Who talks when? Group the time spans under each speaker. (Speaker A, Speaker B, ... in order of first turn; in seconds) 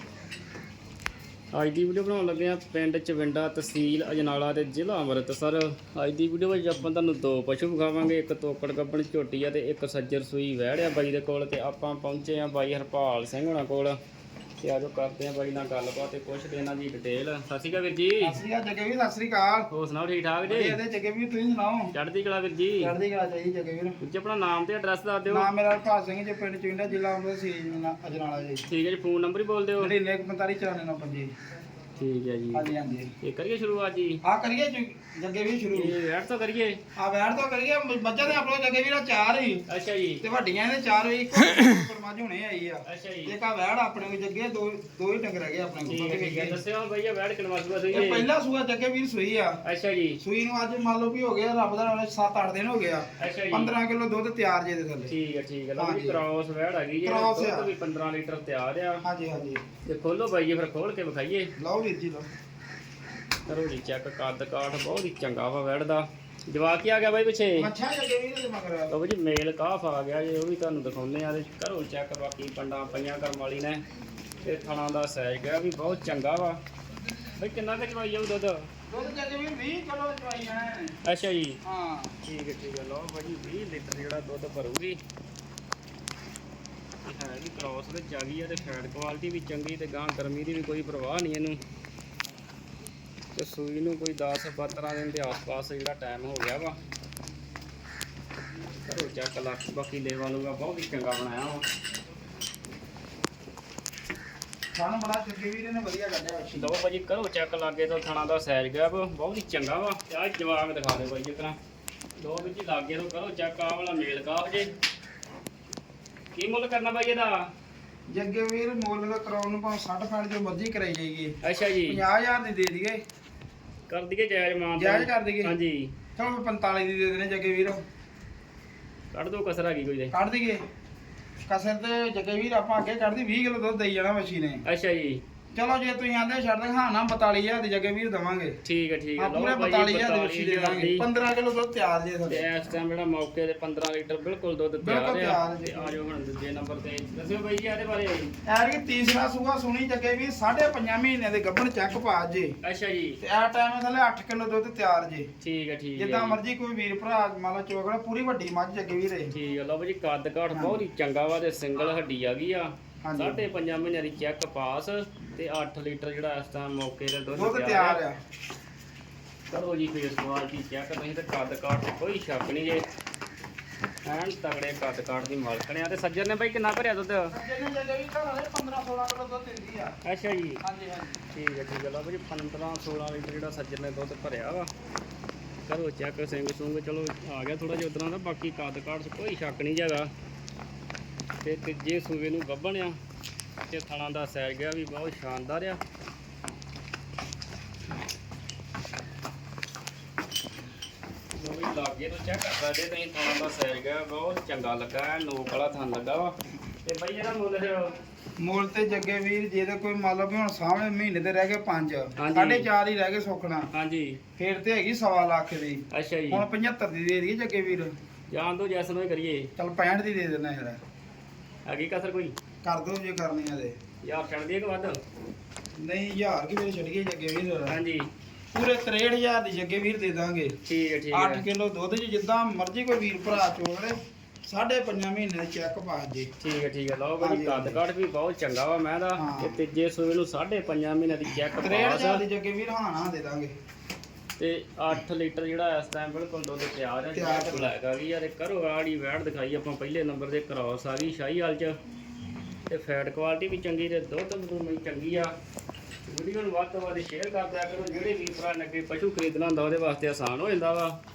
Speaker A: 1.5-14.0, 14.6-18.4, 19.7-20.8, 21.9-22.9, 24.0-25.5, 28.7-29.9, 32.0-32.7, 33.2-34.2, 35.7-36.8, 39.7-40.2, 42.9-43.3, 45.9-48.3, 49.6-50.2, 53.2-53.7, 55.1-59.0, 59.9-61.5, 63.5-67.7, 68.9-73.8, 74.4-76.6, 77.4-78.7, 81.0-81.6, 82.2-85.0, 87.0-91.6, 93.3-96.8, 98.8-101.6, 106.5-111.6, 112.2-114.7, 116.3-117.5, 121.4-122.0, 123.9-125.9, 129.1-130.1, 134.7-135.2, 138.6-141.0, 142.3-148.3, 152.6-153.2, 155.4-156.4, 159.3-168.0, 169.5-172.8, 174.0-177.3, 180.0-180.6, 181.3-184.7, 185.7-190.1, 191.4-193.0, 193.7-195.8, 201.4-207.9, 212.2-212.7, 213.7-214.2, 215.9-216.4, 218.3-219.5, 221.7-222.3, 224.0-225.0, 227.7-228.1, 230.7-231.4, 236.4-242.2, 244.4-251.8, 252.7-255.3, 256.1-260.9
Speaker B: 18.2-19.7, 20.4-21.9, 22.8-24.0, 25.3-28.6, 29.8-31.3, 32.5-33.1, 34.2-35.9, 37.0-39.6, 40.2-46.6, 47.9-49.6, 50.2-55.1, 55.8-56.2, 57.0-57.7, 59.0-59.6, 61.6-62.3, 67.5-68.9, 78.9-81.0, 81.6-82.1, 104.7-106.7, 118.1-123.0, 124.8-125.5, 126.2-127.8, 130.1-130.6, 131.5-134.6, 135.5-138.6, 139.2-142.4, 144.8-146.0, 148.4-152.6, 153.2-155.3, 155.9-159.3, 160.5-160.8, 163.0-163.4, 167.3-168.2, 177.3-179.9, 180.6-181.2, 208.4-213.7, 214.4-217.9, 219.6-220.8, 222.6-223.7, 225.8-227.8, 228.5-230.6, 231.1-236.3, 237.2-237.8, 239.2-239.6, 241.6-243.5, 247.1-247.7